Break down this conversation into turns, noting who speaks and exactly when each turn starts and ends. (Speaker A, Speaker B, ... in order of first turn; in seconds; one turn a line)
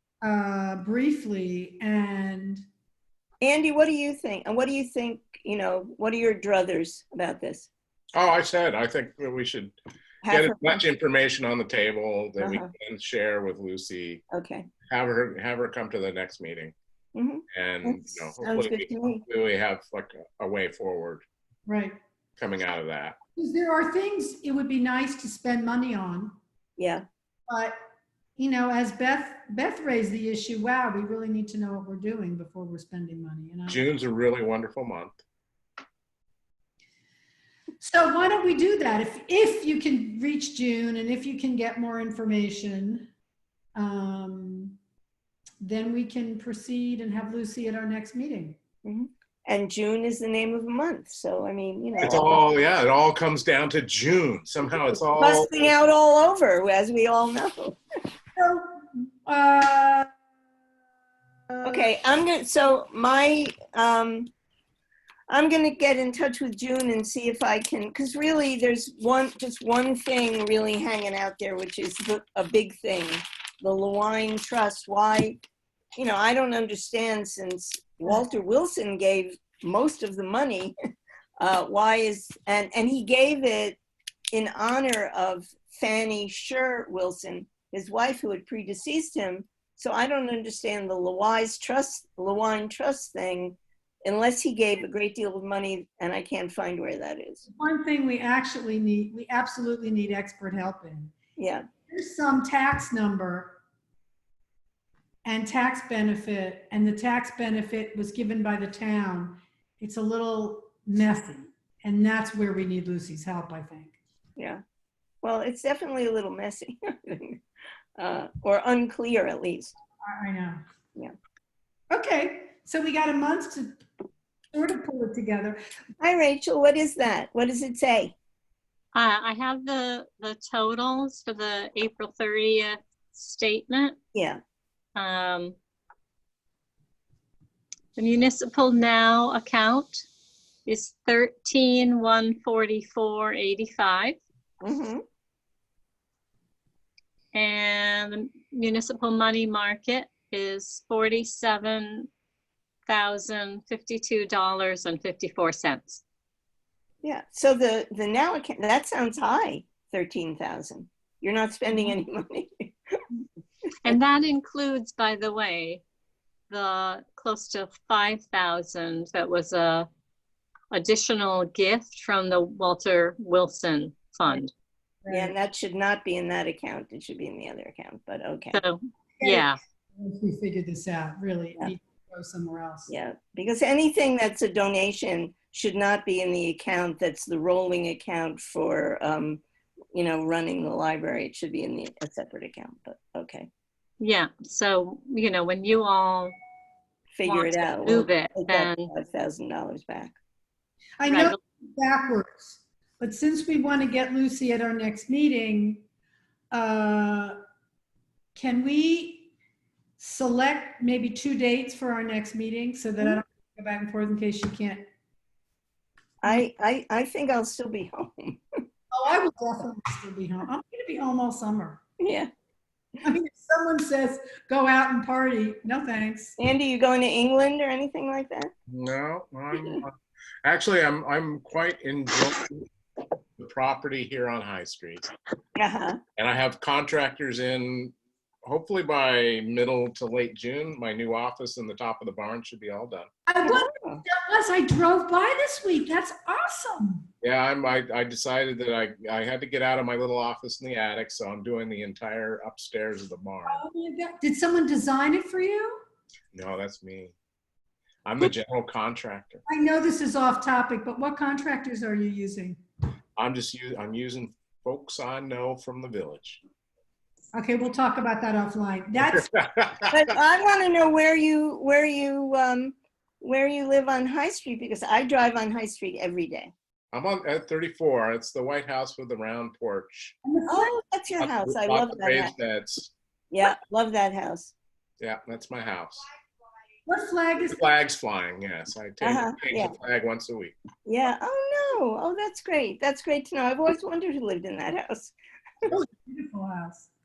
Speaker A: 0.2-2.6
Speaker B: 3.4-7.7
Speaker C: 8.1-9.8
Speaker B: 10.2-10.8
Speaker C: 10.3-14.2
Speaker B: 12.4-12.7
Speaker B: 14.3-14.7
Speaker C: 14.9-16.8
Speaker B: 17.1-19.2
Speaker C: 17.5-21.2
Speaker A: 21.7-22.0
Speaker C: 22.4-23.2
Speaker A: 23.4-26.4
Speaker B: 26.8-27.1
Speaker A: 27.5-27.8
Speaker A: 28.4-33.8
Speaker C: 33.7-35.2
Speaker A: 37.8-43.1
Speaker A: 43.8-44.8
Speaker A: 45.6-48.6
Speaker B: 48.8-52.4
Speaker C: 52.0-55.7
Speaker B: 55.1-57.8
Speaker A: 58.4-60.1
Speaker A: 61.5-61.9
Speaker B: 61.6-64.3
Speaker B: 65.3-75.4
Speaker B: 76.0-80.8
Speaker B: 81.4-83.8
Speaker B: 84.3-97.4
Speaker A: 97.5-101.1
Speaker B: 101.4-101.7
Speaker A: 101.9-103.6
Speaker A: 105.2-114.0
Speaker B: 115.2-117.4
Speaker B: 118.0-119.8
Speaker A: 120.0-120.6
Speaker A: 121.9-123.8
Speaker A: 124.5-125.6
Speaker B: 126.0-128.1
Speaker D: 128.9-134.0
Speaker B: 134.1-134.4
Speaker D: 135.0-135.6
Speaker D: 138.0-140.1
Speaker D: 140.7-144.2
Speaker B: 144.6-145.0
Speaker D: 147.3-152.1
Speaker D: 152.9-156.0
Speaker B: 157.0-162.7
Speaker D: 163.8-165.8
Speaker D: 166.5-169.9
Speaker D: 170.7-174.5
Speaker A: 175.0-175.3
Speaker B: 175.1-178.6
Speaker D: 178.5-179.6
Speaker A: 179.2-182.9
Speaker B: 182.9-189.4
Speaker B: 189.9-193.5
Speaker D: 194.0-196.4
Speaker B: 197.2-200.2
Speaker D: 197.2-198.9
Speaker A: 201.0-205.8
Speaker D: 201.1-201.4
Speaker A: 206.5-207.4
Speaker A: 208.3-209.3
Speaker A: 210.0-214.9
Speaker B: 216.2-218.4
Speaker A: 218.9-221.8
Speaker B: 222.0-222.3
Speaker A: 223.0-226.4
Speaker B: 226.4-228.5
Speaker C: 228.7-232.7
Speaker C: 233.4-235.1
Speaker B: 235.6-236.0
Speaker C: 236.2-243.1
Speaker A: 243.3-247.1
Speaker B: 243.5-244.0
Speaker C: 247.2-253.6
Speaker A: 253.5-255.8
Speaker C: 256.3-257.1
Speaker C: 258.1-259.4
Speaker A: 259.5-262.6
Speaker C: 263.2-266.4
Speaker A: 267.3-269.3
Speaker C: 269.1-269.9
Speaker B: 269.9-276.5
Speaker C: 276.9-280.1
Speaker A: 280.2-280.8
Speaker B: 280.5-282.3
Speaker C: 281.2-282.9
Speaker B: 283.3-284.5
Speaker C: 285.0-286.0
Speaker A: 286.9-287.6
Speaker C: 287.4-290.6
Speaker B: 289.0-289.8
Speaker B: 290.9-295.7
Speaker A: 295.7-296.9